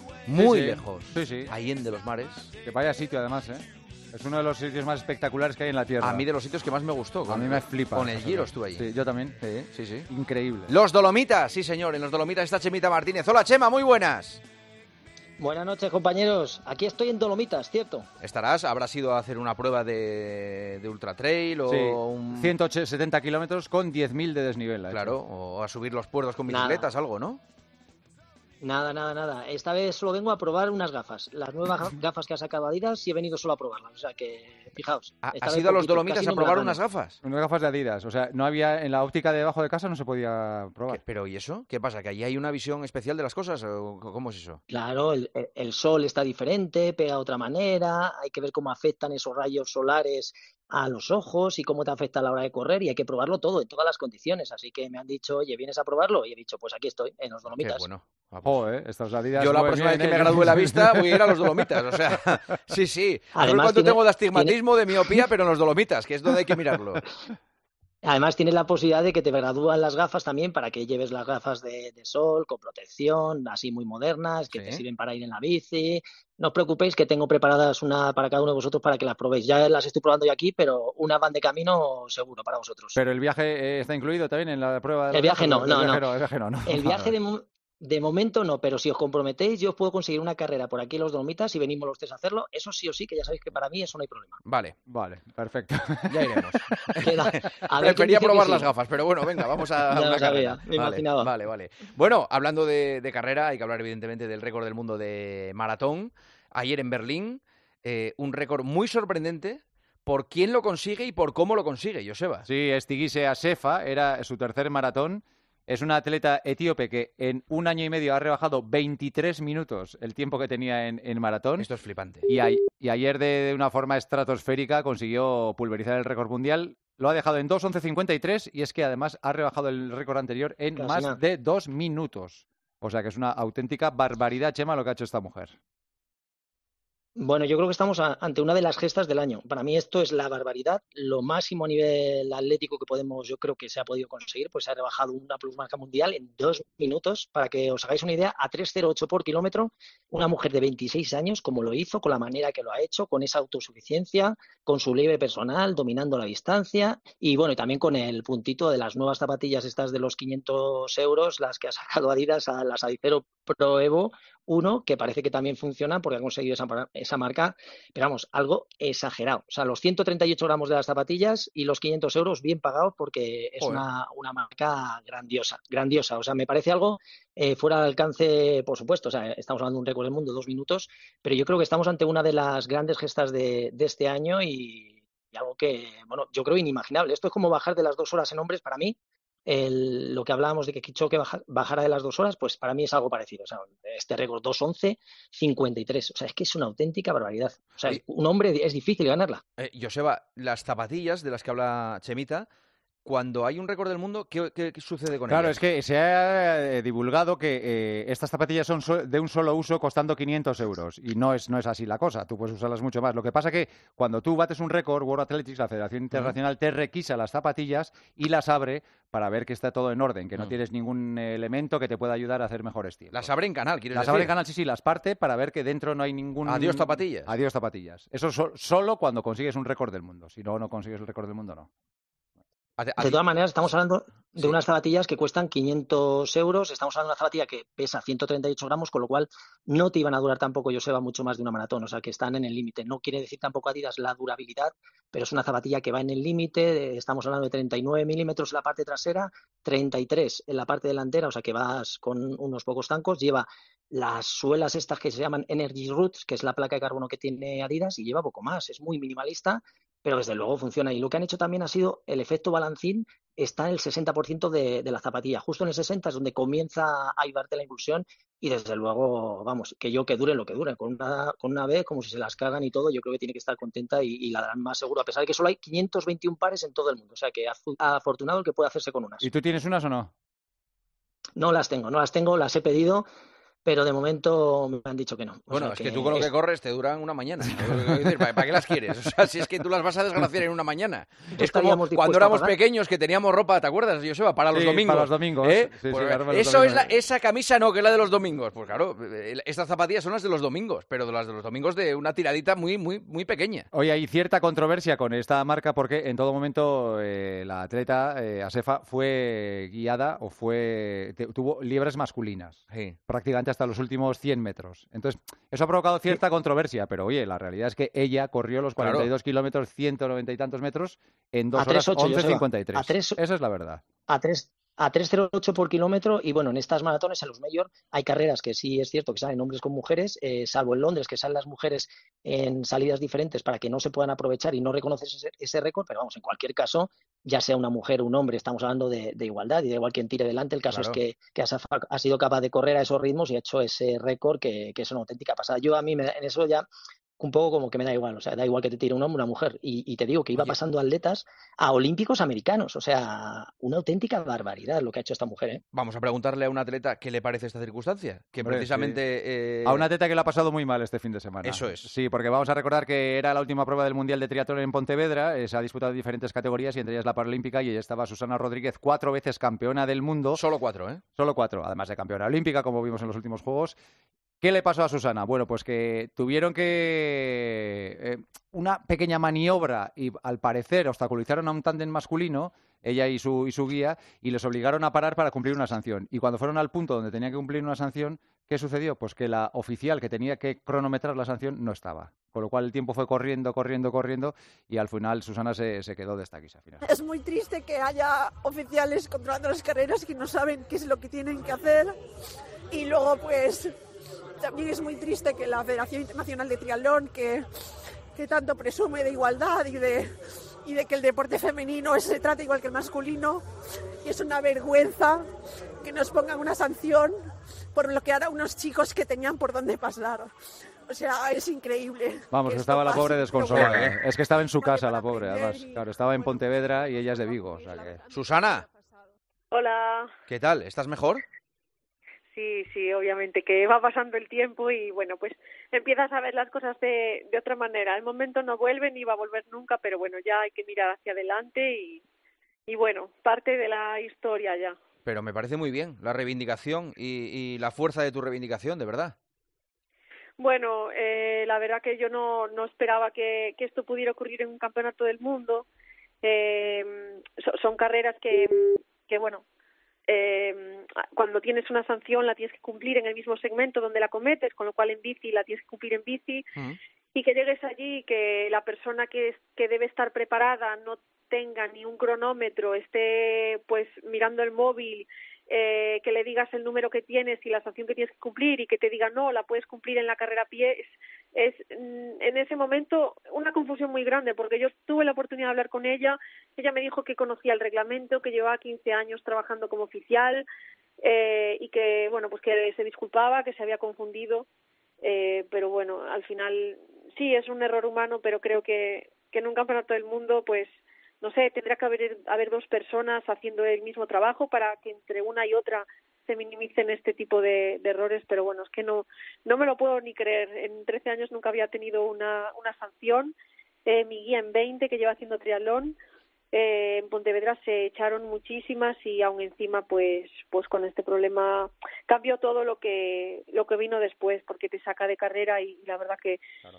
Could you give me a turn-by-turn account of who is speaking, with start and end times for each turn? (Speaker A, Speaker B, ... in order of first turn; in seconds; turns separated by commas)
Speaker A: 0.2-2.5, Speaker B: 0.3-1.5, Speaker B: 2.6-6.2, Speaker A: 6.0-8.8, Speaker B: 7.3-9.4, Speaker A: 9.4-10.1, Speaker B: 10.1-10.7, Speaker A: 10.7-14.4, Speaker C: 15.4-18.1, Speaker A: 18.2-22.5, Speaker B: 21.7-25.1, Speaker A: 24.9-27.4, Speaker C: 26.5-26.9, Speaker C: 28.6-36.8, Speaker A: 35.2-37.2, Speaker B: 37.2-41.0, Speaker A: 40.9-44.6, Speaker C: 44.7-57.9, Speaker A: 57.5-58.6, Speaker B: 58.4-61.3, Speaker A: 59.4-67.0, Speaker C: 63.3-64.6, Speaker C: 68.0-82.9, Speaker A: 74.5-74.8, Speaker B: 82.9-87.1, Speaker C: 85.1-86.0, Speaker C: 86.7-94.4, Speaker A: 94.4-94.7, Speaker B: 94.9-96.4, Speaker A: 96.1-112.5, Speaker C: 97.0-98.7, Speaker C: 99.9-101.3, Speaker B: 112.4-121.7, Speaker A: 121.6-122.3, Speaker B: 122.3-135.6, Speaker C: 130.8-131.2, Speaker C: 137.2-199.4, Speaker A: 199.6-202.5, Speaker A: 203.0-205.6, Speaker B: 205.3-223.3, Speaker A: 223.1-224.3, Speaker B: 223.9-231.7, Speaker A: 226.4-227.3, Speaker A: 232.8-233.2, Speaker C: 233.0-279.3, Speaker B: 279.2-280.1, Speaker C: 281.4-283.1, Speaker C: 283.6-286.3, Speaker A: 285.5-303.6, Speaker B: 287.6-287.9, Speaker C: 291.4-292.6, Speaker B: 294.5-297.0, Speaker B: 303.7-323.8, Speaker A: 312.7-313.0, Speaker A: 318.8-319.1, Speaker C: 321.6-323.2, Speaker C: 324.1-346.7, Speaker A: 340.7-341.0, Speaker C: 347.2-355.6, Speaker A: 355.7-359.9, Speaker B: 358.4-359.0, Speaker B: 359.6-370.4, Speaker A: 361.4-361.9, Speaker A: 370.3-371.0, Speaker B: 371.2-373.8, Speaker B: 374.4-396.8, Speaker D: 396.8-401.9, Speaker D: 402.7-403.7, Speaker D: 404.4-407.5, Speaker D: 408.1-413.4, Speaker D: 414.0-415.2, Speaker D: 415.8-417.2, Speaker D: 417.7-420.3, Speaker D: 420.9-423.9, Speaker B: 422.3-428.0, Speaker A: 423.5-423.9, Speaker D: 424.6-426.4, Speaker D: 427.4-428.9, Speaker A: 428.1-428.7, Speaker E: 429.5-430.1, Speaker A: 430.3-431.2, Speaker E: 432.3-442.0, Speaker E: 442.7-444.8, Speaker A: 445.1-449.1, Speaker E: 450.4-455.7, Speaker E: 456.2-459.4, Speaker E: 460.1-466.4, Speaker E: 467.1-490.4, Speaker E: 491.0-494.4, Speaker E: 495.0-513.3, Speaker E: 513.9-516.0, Speaker E: 516.5-526.4